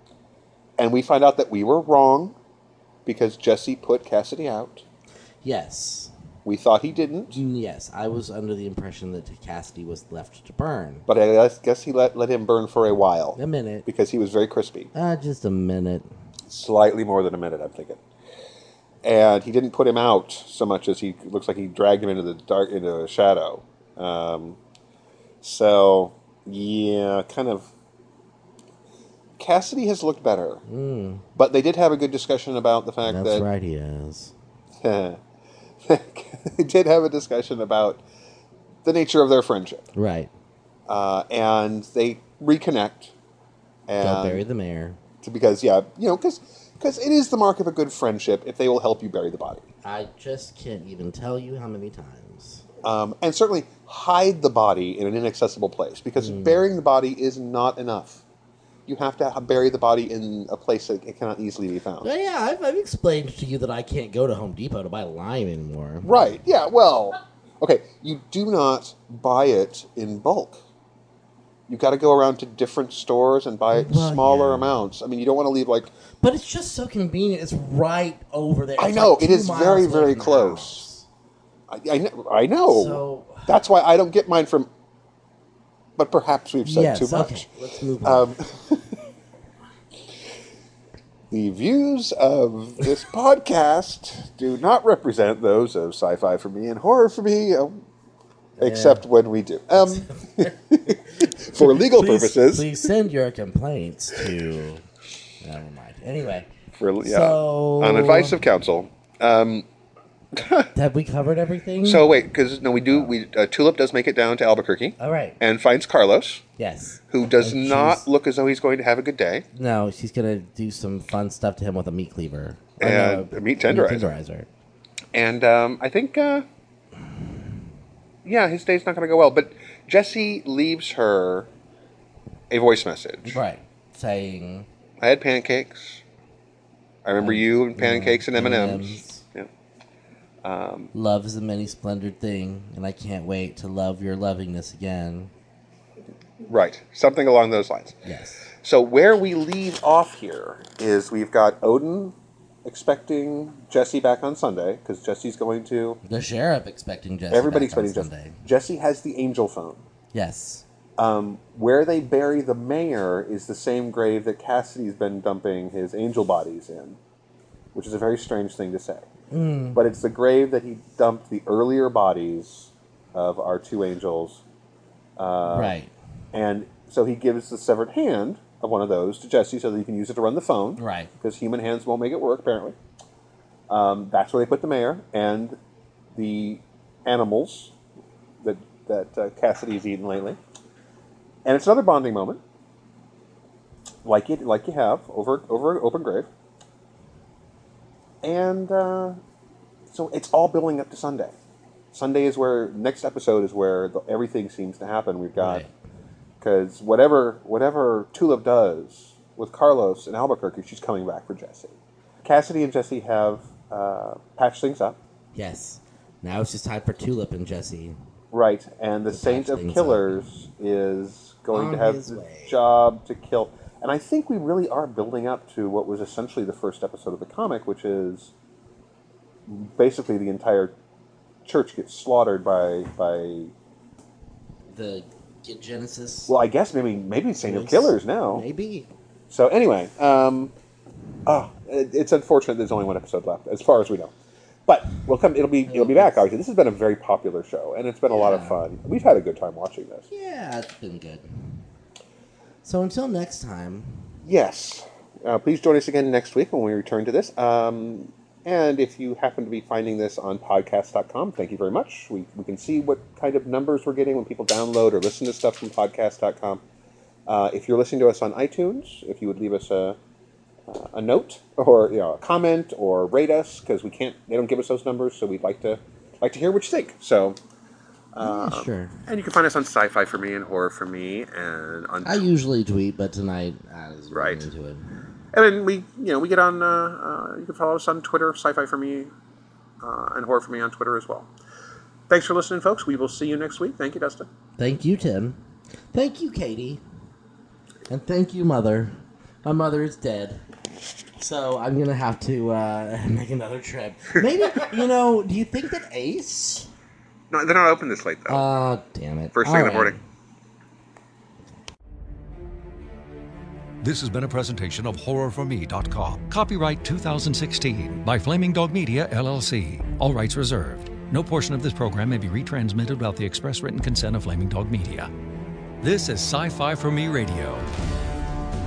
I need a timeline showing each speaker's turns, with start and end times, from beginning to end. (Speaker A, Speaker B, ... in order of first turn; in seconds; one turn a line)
Speaker A: 0.8-2.4
Speaker A: 3.0-4.8
Speaker B: 5.4-6.1
Speaker A: 6.4-7.4
Speaker B: 7.3-11.1
Speaker A: 11.1-14.9
Speaker B: 13.4-13.9
Speaker B: 14.9-16.1
Speaker A: 16.5-18.0
Speaker A: 19.0-24.6
Speaker A: 25.4-27.7
Speaker A: 29.4-30.6
Speaker B: 30.7-31.2
Speaker A: 31.4-33.4
Speaker B: 33.0-34.3
Speaker A: 34.8-35.2
Speaker A: 35.8-38.0
Speaker A: 38.9-39.9
Speaker B: 39.9-40.3
Speaker A: 40.9-43.1
Speaker A: 43.9-44.4
Speaker B: 44.0-45.0
Speaker A: 45.2-49.6
Speaker B: 49.8-52.6
Speaker A: 52.8-58.2
Speaker B: 56.2-56.6
Speaker A: 58.9-62.1
Speaker B: 62.0-66.2
Speaker A: 66.0-70.6
Speaker A: 71.7-75.9
Speaker B: 73.7-74.8
Speaker B: 76.2-81.0
Speaker A: 78.8-80.9
Speaker A: 81.7-84.7
Speaker B: 82.7-83.5
Speaker A: 86.0-87.5
Speaker B: 86.6-88.3
Speaker A: 88.0-89.0
Speaker A: 91.3-97.8
Speaker B: 98.6-99.0
Speaker A: 98.6-102.7
Speaker B: 99.7-100.5
Speaker B: 101.2-104.8
Speaker B: 105.4-106.5
Speaker A: 106.8-109.7
Speaker B: 107.0-108.4
Speaker A: 110.3-110.7
Speaker B: 110.7-112.1
Speaker A: 111.8-116.4
Speaker B: 112.9-113.1
Speaker B: 115.0-115.4
Speaker B: 116.6-118.0
Speaker A: 117.1-119.4
Speaker B: 119.5-124.5
Speaker A: 122.8-124.1
Speaker A: 125.1-126.4
Speaker A: 128.2-131.5
Speaker A: 132.5-133.4
Speaker B: 133.2-134.7
Speaker A: 135.0-136.0
Speaker A: 137.0-139.5
Speaker B: 137.2-139.2
Speaker A: 140.4-140.9
Speaker B: 140.9-145.3
Speaker A: 146.4-148.0
Speaker B: 148.0-148.4
Speaker A: 148.6-156.0
Speaker B: 156.1-158.4
Speaker A: 157.3-159.8
Speaker B: 160.1-160.6
Speaker A: 161.0-167.0
Speaker A: 167.7-169.1
Speaker B: 169.3-169.8
Speaker A: 169.7-174.4
Speaker A: 175.2-175.7
Speaker B: 175.5-175.9
Speaker A: 176.3-182.8
Speaker B: 180.8-181.1
Speaker A: 183.7-185.6
Speaker A: 186.1-187.7
Speaker A: 188.4-190.4
Speaker A: 191.4-192.4
Speaker A: 194.0-196.3
Speaker A: 198.2-199.2
Speaker A: 199.9-201.3
Speaker A: 201.9-205.6
Speaker B: 205.4-205.7
Speaker A: 206.4-215.0
Speaker B: 215.3-217.9
Speaker A: 218.3-228.3
Speaker B: 219.1-220.1
Speaker B: 221.5-222.6
Speaker A: 229.5-230.7
Speaker A: 231.4-233.5
Speaker B: 234.7-236.3
Speaker A: 236.3-238.4
Speaker B: 237.4-238.9
Speaker A: 239.3-240.5
Speaker A: 241.2-244.1
Speaker A: 244.7-250.1
Speaker B: 245.7-246.2
Speaker B: 248.1-248.6
Speaker B: 250.1-251.3
Speaker B: 252.6-254.1
Speaker A: 254.2-266.6
Speaker A: 267.2-270.0
Speaker A: 270.7-277.4
Speaker A: 278.1-282.3
Speaker B: 278.2-279.0
Speaker B: 282.0-285.0
Speaker A: 284.1-284.4
Speaker A: 285.3-289.1
Speaker A: 289.8-291.3
Speaker A: 292.1-294.3
Speaker B: 294.6-295.4
Speaker B: 295.9-296.8
Speaker B: 297.9-300.4
Speaker B: 301.2-306.7
Speaker A: 307.3-308.4
Speaker B: 308.3-310.0
Speaker A: 309.3-309.9
Speaker C: 313.8-325.1
Speaker C: 325.8-327.7